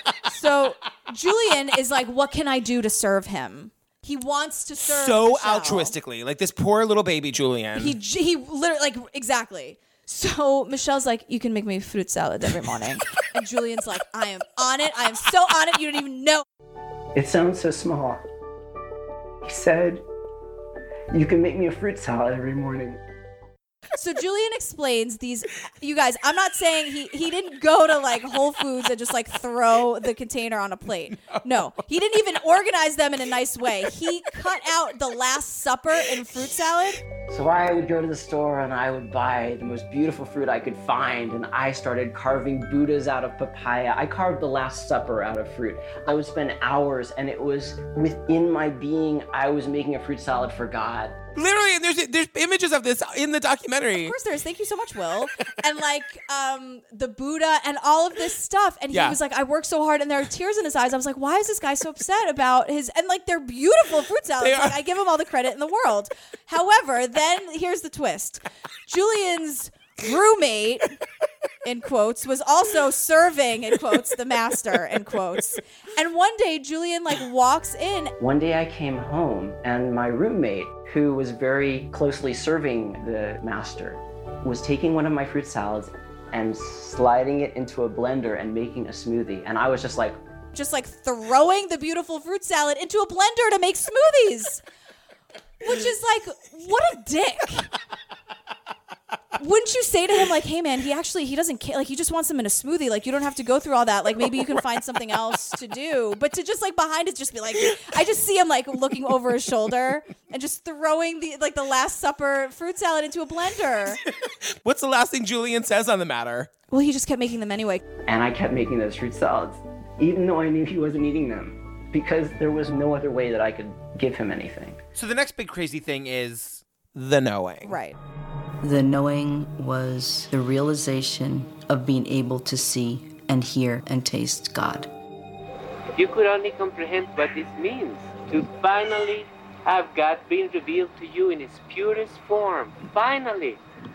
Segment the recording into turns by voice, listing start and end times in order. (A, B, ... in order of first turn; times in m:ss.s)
0:00.2-0:05.9 A
0:04.8-0:08.0 B
0:07.8-0:16.4 A
0:17.2-0:18.2 C
0:19.4-0:20.0 C
0:21.1-0:23.0 C
0:24.0-0:37.0 A
0:37.3-0:51.2 C
0:51.4-0:54.1 B
0:54.0-1:11.0 A
0:58.9-0:59.2 B
1:04.4-1:04.7 B
1:11.6-1:18.1 A
1:18.2-1:30.2 C
1:30.5-1:34.6 A
1:35.6-1:37.7 A
1:39.4-1:54.0 A
1:54.2-1:56.5 B
1:56.7-1:57.8 A
1:58.1-2:04.8 C
2:05.0-2:07.7 B
2:07.6-2:08.0 A
2:08.6-2:14.9 D
2:15.9-2:23.6 E